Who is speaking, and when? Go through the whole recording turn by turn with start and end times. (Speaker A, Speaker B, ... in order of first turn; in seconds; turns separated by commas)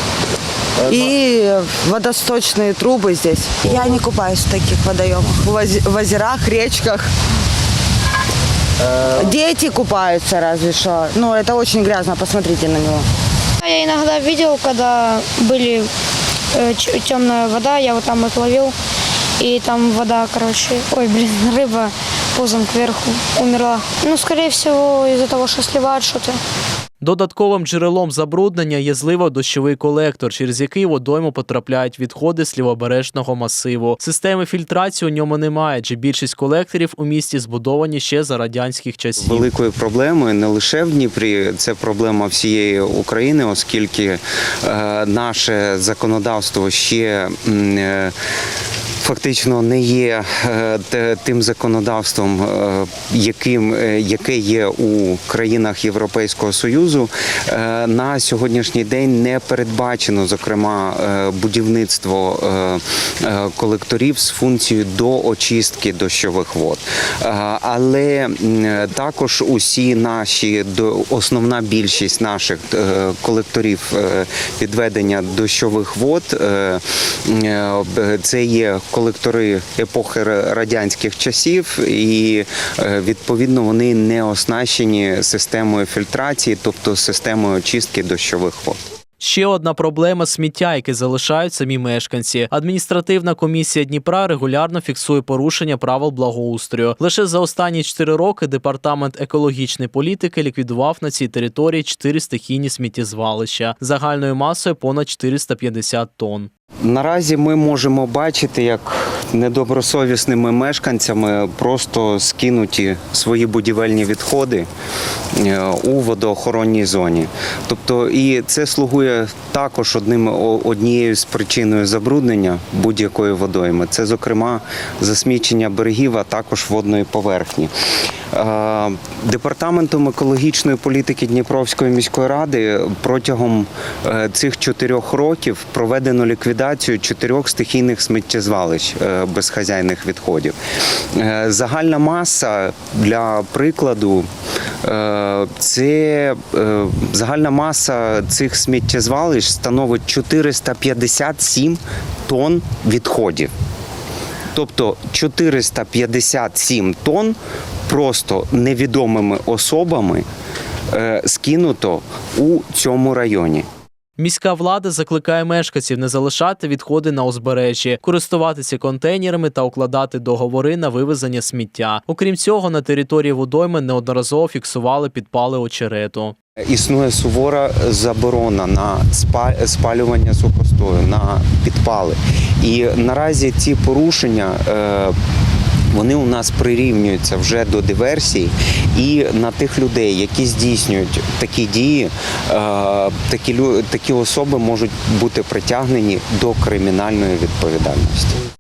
Speaker A: 0.8-7.1, Speaker A: 8.9-13.1, Speaker B: 13.6-15.9, Speaker B: 16.5-18.8, Speaker B: 19.4-26.4, Speaker C: 27.0-39.5, Speaker D: 39.2-48.1, Speaker D: 49.0-88.8, Speaker C: 89.2-106.5, Speaker D: 106.8-114.7, Speaker D: 115.4-127.7, Speaker D: 128.3-140.6, Speaker D: 141.1-144.3, Speaker D: 144.8-153.5, Speaker D: 154.5-160.2, Speaker D: 160.9-163.7, Speaker C: 164.2-176.3, Speaker D: 176.7-185.2, Speaker D: 185.9-198.4